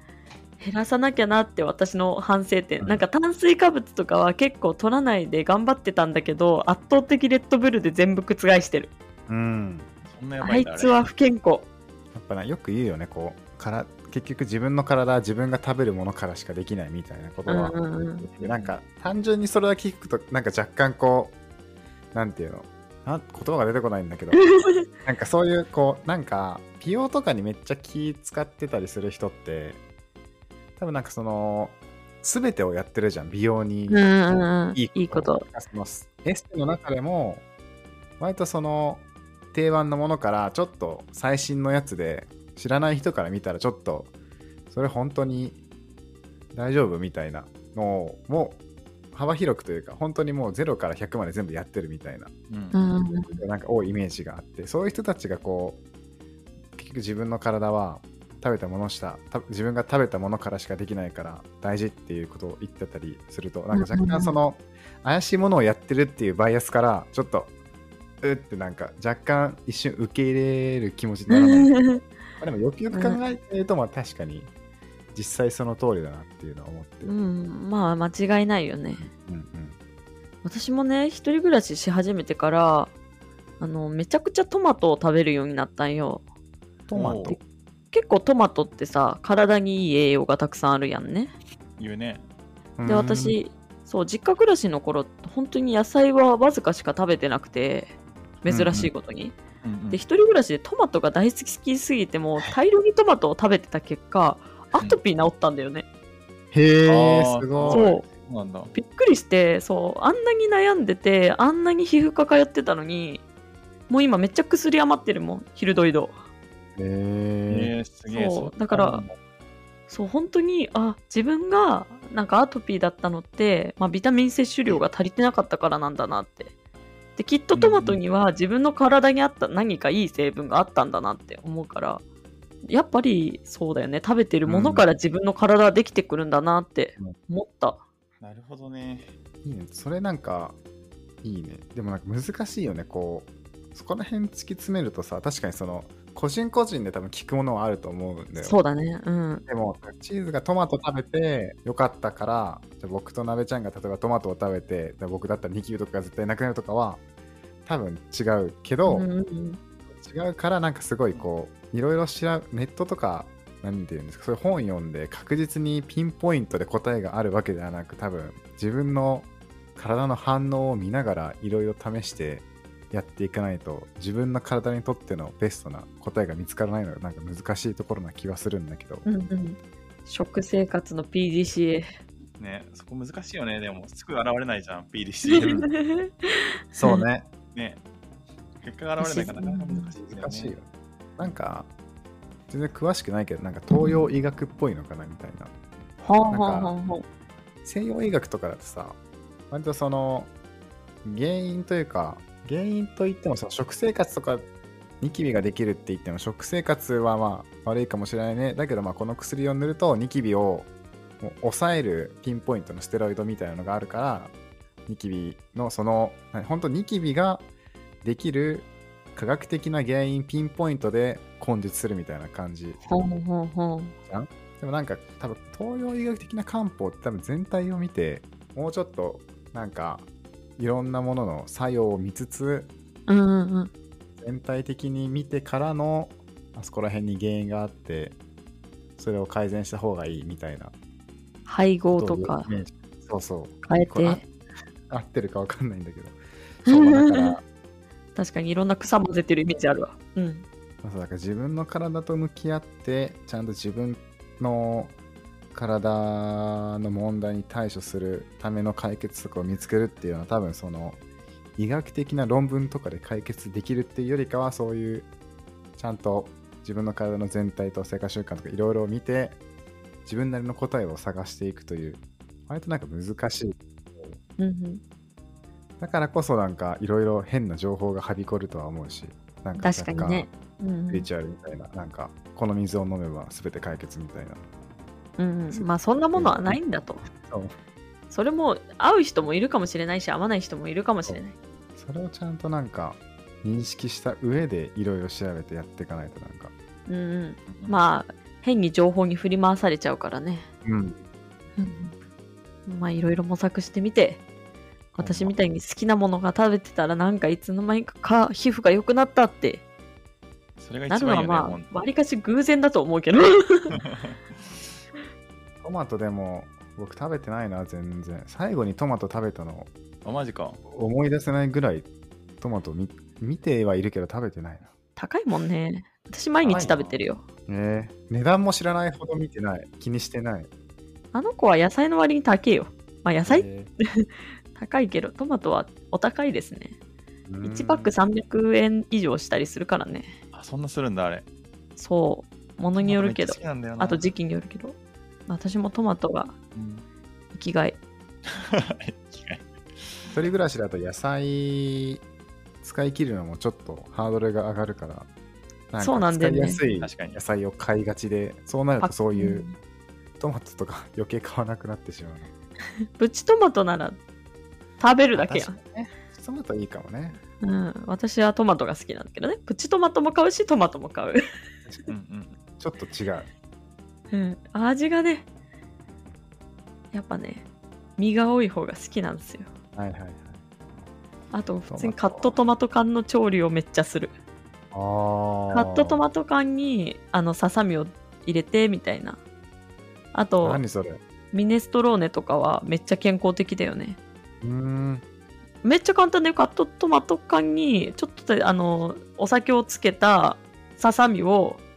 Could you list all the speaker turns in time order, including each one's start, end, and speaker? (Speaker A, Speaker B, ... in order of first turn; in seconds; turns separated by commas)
Speaker A: 0.6-8.9, Speaker B: 9.3-9.9, Speaker C: 10.1-11.0, Speaker A: 10.4-11.7, Speaker B: 12.1-21.3, Speaker A: 17.5-18.3, Speaker C: 18.4-18.7, Speaker B: 22.1-24.4, Speaker A: 24.4-24.9, Speaker B: 25.0-29.8, Speaker B: 30.8-37.4, Speaker A: 33.9-35.4, Speaker B: 38.2-44.1, Speaker B: 44.7-45.6, Speaker B: 46.5-48.6, Speaker B: 49.1-52.3, Speaker C: 52.5-52.8, Speaker A: 52.7-53.4, Speaker B: 53.4-55.8, Speaker B: 56.8-67.5, Speaker A: 63.7-64.3, Speaker B: 68.2-71.8, Speaker A: 71.3-72.0, Speaker B: 72.4-74.5, Speaker A: 72.9-73.2, Speaker B: 75.1-77.1, Speaker A: 77.0-79.1, Speaker B: 79.0-79.8, Speaker A: 80.4-82.9, Speaker A: 83.6-86.2, Speaker B: 86.9-87.4, Speaker C: 86.9-87.4, Speaker A: 87.9-91.3, Speaker C: 91.8-92.2, Speaker B: 92.8-93.4, Speaker A: 92.8-97.9, Speaker A: 98.4-99.3, Speaker B: 98.5-98.9, Speaker C: 99.6-100.0, Speaker A: 99.9-105.8, Speaker B: 106.5-107.9, Speaker C: 106.8-108.7, Speaker A: 107.7-108.0, Speaker A: 108.7-113.2, Speaker A: 113.9-116.2, Speaker B: 116.8-117.7, Speaker C: 117.5-119.1, Speaker A: 118.1-119.0, Speaker A: 119.9-126.5, Speaker A: 127.2-132.0, Speaker C: 127.5-128.0, Speaker A: 132.7-137.8, Speaker B: 134.4-134.8, Speaker C: 138.2-139.1, Speaker B: 139.4-140.6, Speaker B: 141.2-148.6, Speaker A: 148.4-149.4, Speaker B: 149.4-157.0, Speaker B: 157.6-159.1, Speaker A: 158.8-159.6, Speaker B: 159.9-179.1, Speaker A: 179.0-181.9, Speaker C: 182.4-185.7, Speaker A: 185.3-187.0, Speaker B: 186.8-187.3, Speaker C: 187.5-187.8, Speaker C: 188.6-190.6, Speaker A: 189.0-189.9, Speaker B: 190.1-190.7, Speaker B: 191.2-191.7, Speaker B: 192.5-195.5, Speaker A: 196.0-197.0, Speaker B: 196.3-196.7, Speaker B: 197.6-199.0, Speaker B: 199.5-200.3, Speaker B: 201.0-204.4, Speaker B: 205.0-210.7, Speaker B: 211.2-214.3, Speaker B: 214.9-217.4, Speaker B: 218.0-222.8, Speaker A: 222.8-223.9, Speaker B: 224.1-230.1, Speaker B: 230.6-232.7, Speaker A: 233.1-233.7, Speaker B: 234.2-238.2, Speaker B: 239.0-240.7, Speaker A: 241.5-242.5, Speaker B: 241.9-244.3, Speaker A: 243.7-244.2, Speaker B: 244.9-247.4, Speaker A: 246.7-247.4, Speaker A: 248.2-250.4, Speaker B: 250.8-254.9, Speaker B: 255.5-261.0, Speaker B: 261.6-265.1, Speaker B: 265.8-269.4, Speaker B: 270.1-274.2, Speaker A: 274.4-274.8, Speaker B: 275.8-280.3, Speaker A: 279.6-281.1, Speaker B: 280.9-284.4, Speaker A: 285.2-287.0, Speaker B: 285.5-286.6, Speaker B: 287.1-287.5, Speaker A: 288.1-291.4, Speaker B: 291.8-296.5, Speaker A: 296.9-300.5, Speaker C: 297.5-297.8, Speaker B: 300.6-301.0, Speaker A: 301.6-301.9, Speaker A: 302.7-304.2, Speaker B: 304.9-305.3, Speaker A: 305.0-309.6, Speaker C: 310.6-311.7, Speaker A: 310.9-313.8, Speaker C: 313.7-314.2, Speaker B: 315.6-319.7, Speaker C: 320.0-320.6, Speaker B: 320.7-321.9, Speaker B: 322.4-324.7, Speaker A: 324.9-327.2, Speaker C: 326.4-327.0, Speaker B: 326.5-326.7, Speaker B: 327.5-330.5, Speaker A: 331.1-333.5, Speaker B: 333.2-333.7, Speaker A: 334.0-336.8, Speaker B: 337.3-337.9, Speaker A: 337.4-340.1, Speaker C: 340.3-341.2, Speaker A: 341.8-344.8, Speaker C: 342.8-344.0, Speaker A: 345.3-346.3, Speaker C: 346.5-346.8, Speaker A: 347.3-347.8, Speaker C: 348.3-350.1, Speaker B: 350.1-352.0, Speaker B: 352.6-355.1, Speaker B: 355.7-359.5, Speaker A: 355.8-356.6, Speaker C: 356.7-357.2, Speaker A: 358.8-359.5, Speaker B: 360.2-362.3, Speaker A: 362.9-364.0, Speaker A: 364.8-365.6, Speaker B: 365.1-367.2, Speaker A: 367.4-371.2, Speaker C: 371.9-372.4, Speaker B: 372.6-373.3, Speaker A: 374.1-375.2, Speaker A: 376.9-377.4, Speaker A: 378.0-379.5, Speaker B: 379.7-380.4, Speaker A: 381.3-384.1, Speaker B: 381.7-382.3, Speaker B: 384.7-386.0, Speaker A: 385.5-389.2, Speaker A: 390.1-390.6, Speaker B: 390.4-391.0, Speaker A: 391.3-394.0, Speaker B: 394.4-395.0, Speaker A: 395.6-401.6